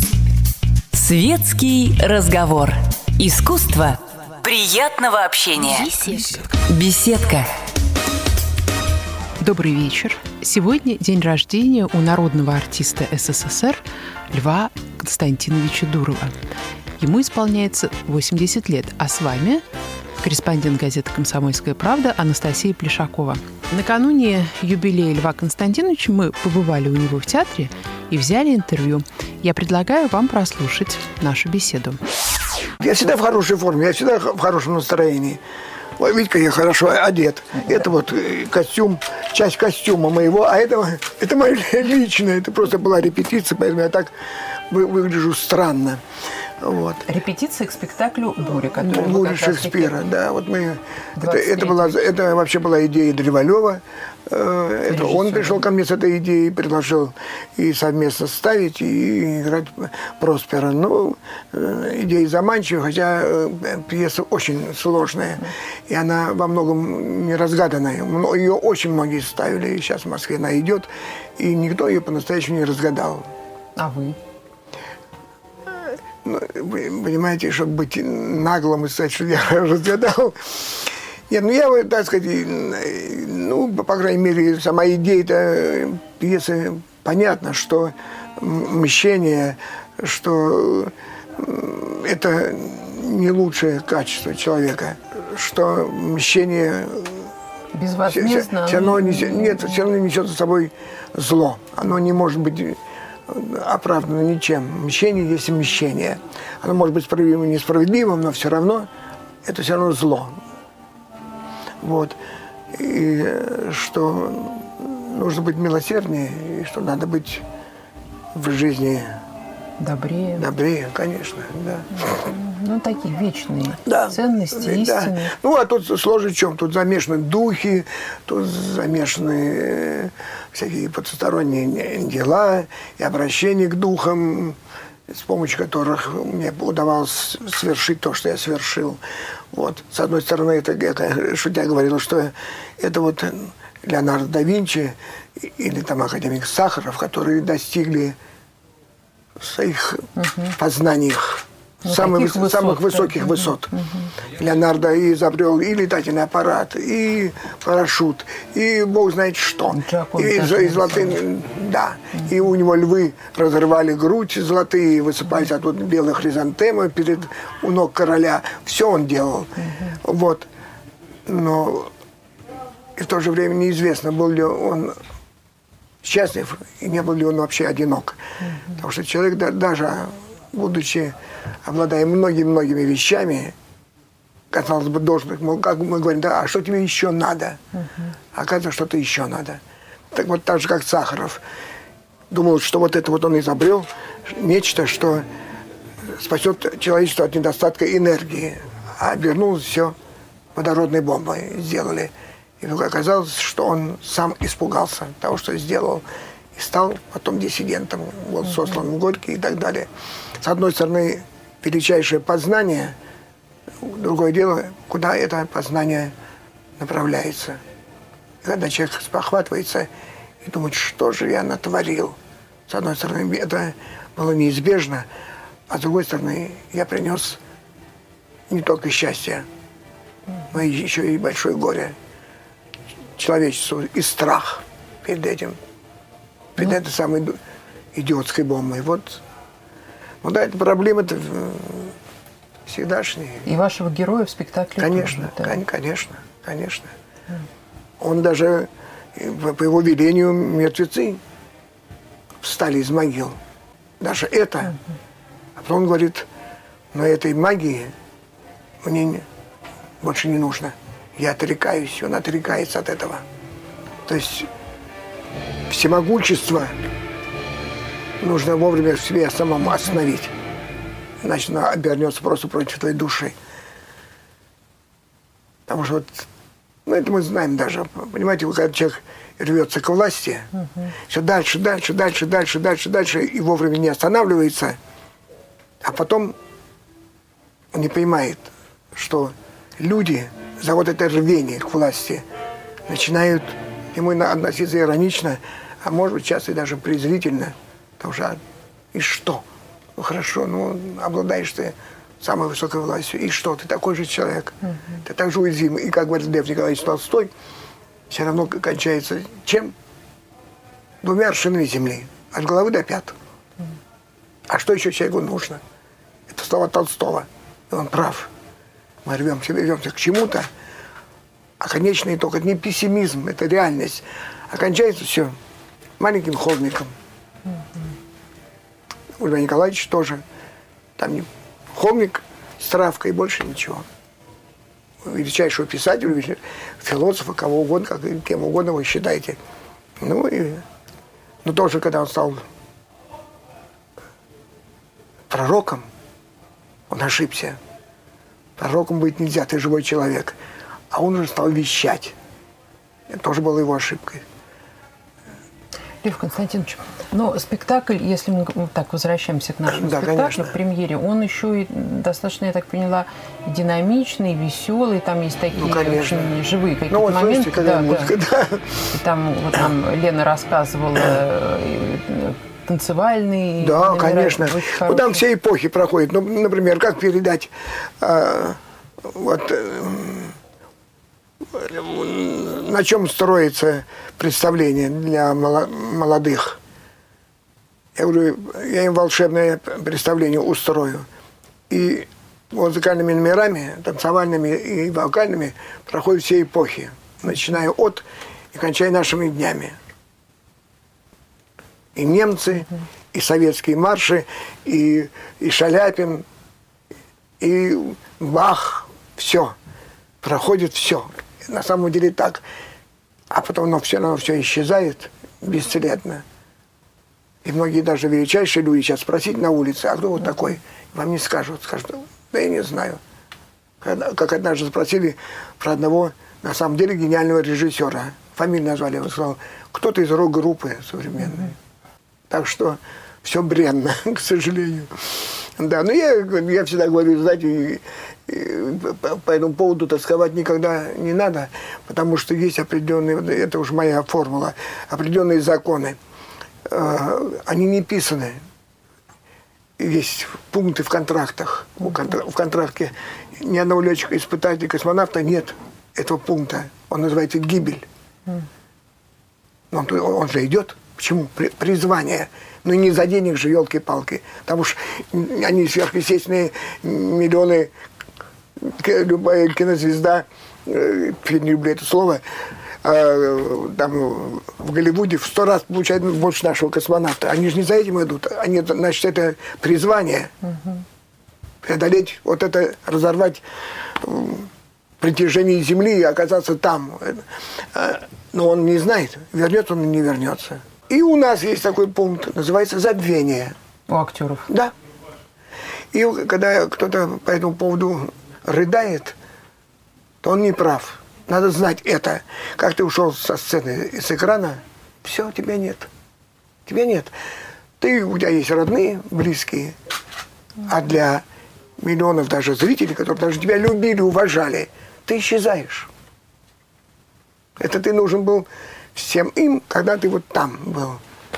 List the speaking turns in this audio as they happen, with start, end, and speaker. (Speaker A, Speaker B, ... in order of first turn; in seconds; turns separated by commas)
Speaker A: 0.9-7.5, Speaker B: 9.4-16.3, Speaker B: 17.0-19.6, Speaker B: 20.2-32.0, Speaker C: 32.8-35.4, Speaker C: 36.0-46.0, Speaker C: 46.6-47.1, Speaker B: 47.0-50.0, Speaker C: 48.7-73.3, Speaker B: 51.2-52.0, Speaker B: 54.9-55.6, Speaker B: 73.8-74.2, Speaker C: 75.7-97.3, Speaker B: 97.7-99.8, Speaker C: 98.1-108.9, Speaker C: 109.4-110.4, Speaker C: 111.8-112.2, Speaker C: 112.7-117.4, Speaker C: 118.3-119.2, Speaker B: 119.8-120.5, Speaker C: 120.4-122.2, Speaker B: 122.1-125.3, Speaker C: 123.9-139.0, Speaker C: 139.5-148.2, Speaker C: 149.4-170.5, Speaker B: 150.2-150.5, Speaker B: 151.8-154.1, Speaker B: 159.7-161.2, Speaker C: 171.3-171.9, Speaker C: 173.0-175.0, Speaker C: 176.0-183.6, Speaker C: 184.5-187.6, Speaker C: 188.3-189.6, Speaker C: 190.1-191.4, Speaker C: 192.3-195.3, Speaker C: 196.0-200.0, Speaker C: 200.6-209.9, Speaker C: 210.4-213.0, Speaker C: 213.8-216.1, Speaker C: 216.8-217.6, Speaker C: 218.4-219.9, Speaker C: 220.4-225.1, Speaker C: 225.7-227.4, Speaker C: 228.5-229.5, Speaker C: 230.5-232.0, Speaker C: 233.2-235.6, Speaker C: 236.6-237.4, Speaker C: 237.9-239.2, Speaker C: 240.2-242.0, Speaker C: 242.7-243.5, Speaker B: 243.4-245.6, Speaker C: 244.8-246.9, Speaker C: 248.0-251.2, Speaker C: 252.4-253.4, Speaker C: 254.0-254.8, Speaker C: 255.6-256.3, Speaker C: 256.9-257.9, Speaker C: 258.8-259.2, Speaker C: 260.0-263.2, Speaker C: 264.1-264.5, Speaker C: 265.7-266.8, Speaker C: 268.2-270.3, Speaker C: 271.2-273.4, Speaker C: 275.7-276.3, Speaker C: 276.9-280.5, Speaker C: 281.1-284.8, Speaker C: 285.8-286.4, Speaker C: 287.7-292.2, Speaker C: 292.9-298.4, Speaker C: 298.9-299.4, Speaker C: 300.0-307.3, Speaker C: 308.1-309.7, Speaker C: 311.0-313.1, Speaker C: 314.5-315.6, Speaker C: 316.3-318.3, Speaker C: 319.1-320.5, Speaker C: 321.6-325.4, Speaker C: 326.0-326.9, Speaker C: 329.2-330.2, Speaker C: 331.0-333.9, Speaker C: 335.0-339.4, Speaker C: 340.0-340.6, Speaker C: 341.4-342.4, Speaker C: 345.3-345.9, Speaker C: 346.9-347.6, Speaker C: 348.6-350.4, Speaker C: 350.9-352.2, Speaker C: 353.1-354.2, Speaker B: 356.0-368.1, Speaker C: 359.7-360.6, Speaker C: 365.5-366.3, Speaker C: 366.9-368.9, Speaker B: 368.9-375.2, Speaker C: 373.6-380.4, Speaker C: 381.5-386.6, Speaker C: 387.9-391.1, Speaker C: 391.7-399.8, Speaker C: 401.9-406.2, Speaker C: 407.4-409.6, Speaker C: 410.2-412.4, Speaker C: 413.3-416.2, Speaker C: 417.4-423.0, Speaker C: 423.8-431.6, Speaker C: 432.3-446.0, Speaker C: 446.6-448.4, Speaker C: 449.8-457.9, Speaker C: 459.7-467.7, Speaker C: 468.6-472.2, Speaker C: 472.8-480.3, Speaker C: 481.6-493.6, Speaker B: 493.9-494.5, Speaker C: 495.9-499.2, Speaker C: 500.2-505.9, Speaker C: 506.7-507.1, Speaker C: 507.8-509.8, Speaker C: 510.7-511.2, Speaker C: 511.8-515.9, Speaker C: 517.6-521.0